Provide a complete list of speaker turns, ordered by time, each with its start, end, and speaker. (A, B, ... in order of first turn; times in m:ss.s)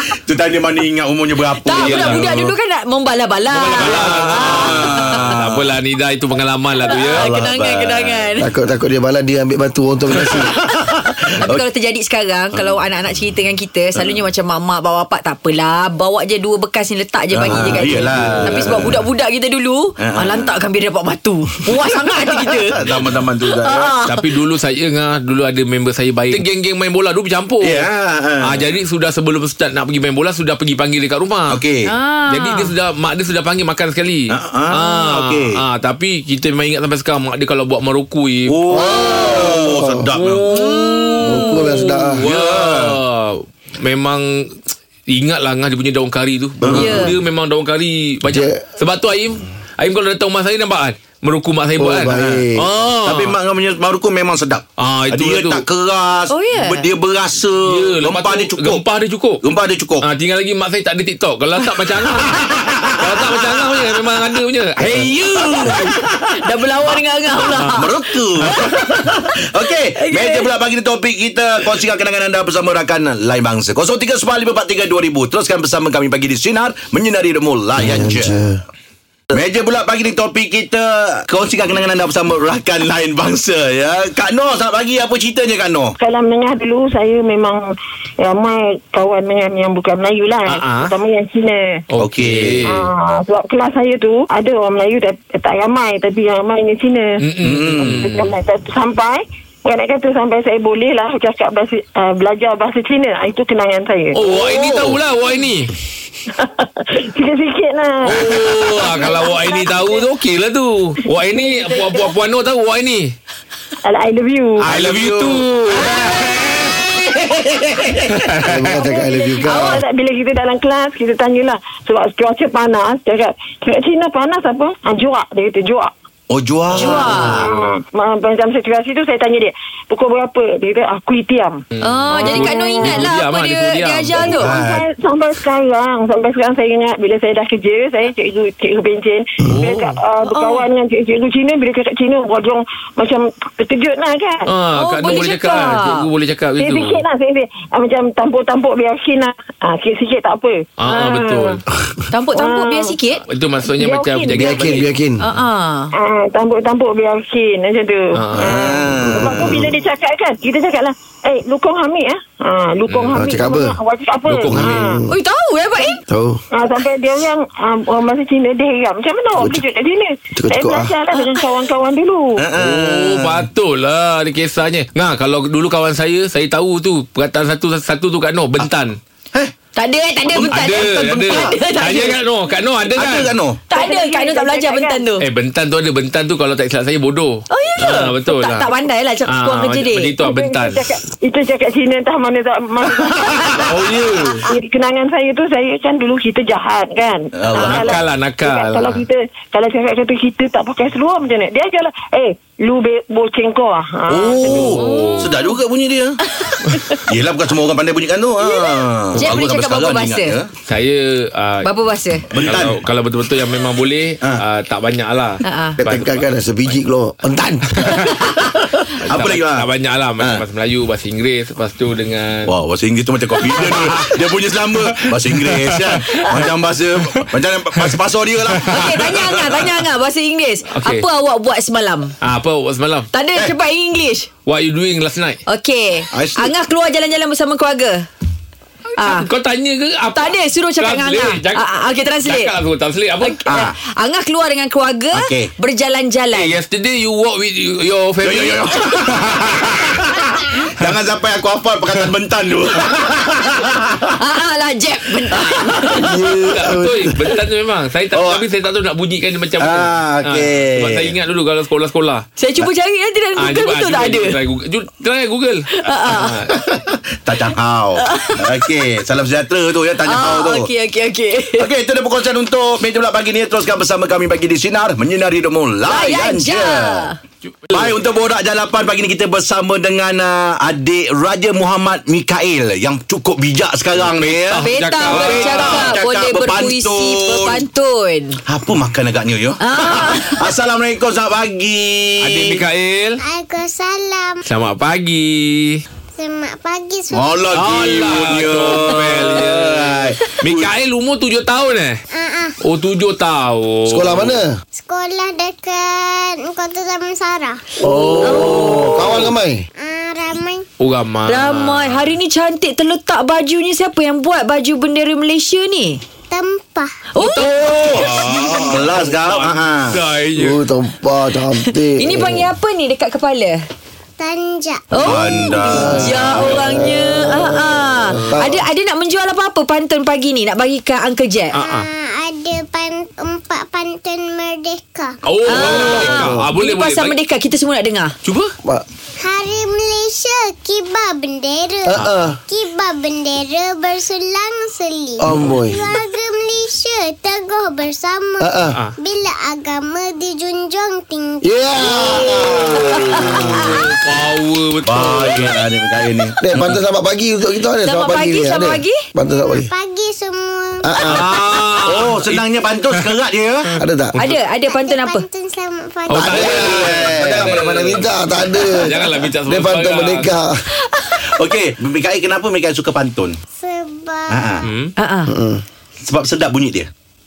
0:00.2-0:02.5 A
0:01.6-0:05.3 B
0:01.7-0:02.4 C
0:03.5-0:07.3 C
0:03.6-0:05.6 A
0:06.9-0:08.5 B
0:07.1-0:08.2 A
0:08.4-0:10.5 D
0:10.9-0:11.6 A
0:11.4-0:24.3 B
0:12.5-0:12.8 A
0:14.0-0:14.2 A
0:17.3-0:19.0 A
0:18.3-0:18.5 C
0:20.0-0:20.5 A
0:22.1-0:23.9 A
0:24.1-0:27.9 C
0:27.6-0:28.7 A
0:28.4-0:31.6 C
0:31.5-0:31.9 A
0:31.9-0:32.7 B
0:32.3-0:38.9 C
0:34.3-0:35.5 A
0:38.5-0:40.5 A
0:38.7-0:40.1 D
0:40.2-0:44.6 C
0:40.5-0:41.8 B
0:41.2-0:42.3 D
0:42.2-0:43.0 A
0:45.1-0:53.4 C
0:46.6-0:47.2 D
0:46.8-0:47.1 B
0:48.2-0:48.6 D
0:51.8-0:52.7 D
0:53.0-0:58.8 A
0:54.8-0:55.6 C
0:56.3-0:56.9 B
0:57.7-0:59.4 C
0:59.4-1:00.1 A
1:00.0-1:06.0 C
1:02.4-1:03.4 A
1:04.9-1:08.6 B
1:07.7-1:18.4 A
1:10.0-1:10.5 B
1:17.8-1:18.6 D
1:19.3-1:26.0 A
1:26.0-1:27.6 E
1:28.2-1:31.8 E
1:30.5-1:31.0 C
1:31.9-1:32.9 C
1:32.0-1:32.6 A
1:32.6-1:37.2 E
1:37.2-1:38.3 C
1:37.4-1:37.9 A
1:37.8-1:44.5 E
1:44.1-1:45.7 C
1:44.4-1:45.0 A
1:46.3-1:50.1 E
1:48.0-1:53.1 C
1:51.2-1:52.1 E
1:53.8-1:54.7 E
1:54.6-1:55.8 C
1:54.7-1:57.0 A
1:55.8-1:56.1 E
1:58.1-1:58.8 C
1:58.4-1:59.8 D
1:58.7-2:05.9 E
2:06.3-2:07.5 A
2:06.7-2:07.5 B
2:07.4-2:13.1 E
2:11.8-2:14.4 C
2:11.8-2:14.5 B
2:14.2-2:14.8 A
2:14.4-2:24.5 E
2:19.5-2:20.1 C
2:20.2-2:20.7 B
2:24.5-2:27.1 C
2:24.8-2:26.1 B
2:25.0-2:25.7 E
2:26.6-2:31.6 E
2:30.8-2:31.6 C
2:32.1-2:33.2 B
2:32.3-2:33.0 E
2:33.3-2:34.9 C
2:33.6-2:34.6 E
2:34.4-2:35.2 D
2:35.2-2:35.9 B
2:35.9-2:45.0 E
2:38.1-2:38.6 C
2:38.4-2:39.7 A
2:39.0-2:39.7 D
2:42.8-2:43.3 C
2:43.1-2:43.8 D
2:44.2-2:44.8 C
2:44.5-2:45.1 D
2:45.1-2:46.0 B
2:46.1-2:46.4 D
2:46.5-2:52.4 E
2:49.4-2:49.6 D
2:50.4-2:51.0 D
2:51.1-2:51.5 B
2:52.4-2:53.4 A
2:52.5-2:59.0 C
2:59.8-3:02.2 B
3:00.3-3:01.0 A
3:00.4-3:03.4 C
3:03.0-3:03.6 A
3:03.7-3:05.2 B
3:03.7-3:05.0 E
3:05.2-3:08.7 C
3:07.5-3:10.1 B
3:09.3-3:10.9 C
3:10.2-3:13.9 E
3:13.6-3:14.5 C
3:14.5-3:24.8 E
3:17.4-3:18.0 A
3:17.5-3:19.1 C
3:24.1-3:26.2 A
3:24.4-3:25.4 C
3:24.8-3:25.2 B
3:26.4-3:26.9 B
3:27.1-3:30.5 A
3:28.4-3:30.4 B
3:30.7-3:31.7 C
3:31.6-3:32.3 B
3:32.3-3:32.8 A
3:32.4-3:36.8 C
3:35.4-3:35.8 B
3:35.8-3:38.4 D
3:37.8-3:38.3 C
3:39.0-3:42.5 C
3:39.1-3:39.7 A
3:42.5-3:49.6 A
3:43.5-3:46.3 C
3:48.5-3:49.0 C
3:48.6-3:52.1 B
3:50.8-3:51.1 C
3:52.2-3:53.1 C
3:53.1-3:54.3 B
3:54.5-3:55.4 C
3:55.5-3:58.1 B
3:56.1-3:56.5 A
3:59.0-4:01.7 C
3:59.0-3:59.3 B
4:00.1-4:02.5 B
4:02.2-4:03.4 C
4:03.2-4:06.6 B
4:03.5-4:03.8 A
4:05.1-4:05.5 A
4:06.3-4:09.4 C
4:08.2-4:14.1 A
4:14.1-4:16.1 B
4:15.9-4:17.1 D
4:16.5-4:22.3 C
4:18.1-4:18.4 A
4:19.6-4:21.1 A
4:22.4-4:24.4 B
4:23.4-4:26.5 C
4:25.7-4:26.4 B
4:26.8-4:30.7 A
4:28.0-4:28.4 B
4:30.0-4:31.7 B
4:31.6-4:37.1 A
4:35.9-4:37.2 B
4:37.5-4:38.0 C
4:37.7-4:47.6 A
4:44.0-4:46.0 C
4:44.5-4:48.4 B
4:48.5-4:52.6 A
4:49.6-4:50.4 B
4:52.2-4:53.2 C
4:53.2-4:54.4 F
4:54.5-4:55.8 C
4:56.1-4:57.4 F
4:57.1-5:00.7 A
4:57.5-5:02.0 C
5:02.1-5:02.6 F
5:02.6-5:04.4 C
5:03.9-5:04.5 D
5:04.8-5:07.6 F
5:07.8-5:09.6 D
5:07.8-5:09.0 B
5:08.5-5:09.0 A
5:09.8-5:10.6 F
5:10.8-5:12.1 C
5:11.2-5:16.0 B
5:16.3-5:17.1 F
5:17.1-5:17.5 B
5:17.2-5:20.6 C
5:17.3-5:20.0 A
5:20.3-5:22.5 D
5:21.6-5:23.6 B
5:24.2-5:25.6 F
5:24.9-5:31.6 B
5:25.0-5:26.4 A
5:25.7-5:28.6 D
5:25.9-5:26.6 C
5:31.5-5:31.9 C
5:31.6-5:35.5 F
5:35.2-5:37.2 C
5:35.5-5:38.1 B
5:35.6-5:36.5 D
5:38.2-5:38.5 C
5:39.2-5:52.4 F
5:41.8-5:42.4 D
5:45.2-5:45.8 D
5:48.4-5:48.8 D
5:51.4-5:53.8 D
5:51.8-5:52.5 C
5:52.5-5:53.0 A
5:53.0-5:53.3 B
5:53.2-5:55.6 C
5:54.9-5:56.4 A
5:56.4-5:59.7 D
5:57.8-5:59.0 B
5:59.2-6:01.1 F
6:00.8-6:01.3 D
6:01.1-6:03.1 C
6:01.1-6:03.7 A
6:03.7-6:04.4 C
6:03.8-6:04.2 D
6:04.2-6:05.2 B
6:04.5-6:06.6 F
6:06.1-6:10.3 C
6:06.1-6:10.6 D
6:06.1-6:08.8 A
6:11.2-6:13.4 A
6:13.6-6:14.4 F
6:14.3-6:14.7 A
6:14.6-6:14.9 C
6:15.0-6:15.3 B
6:15.3-6:15.6 D
6:16.0-6:16.9 A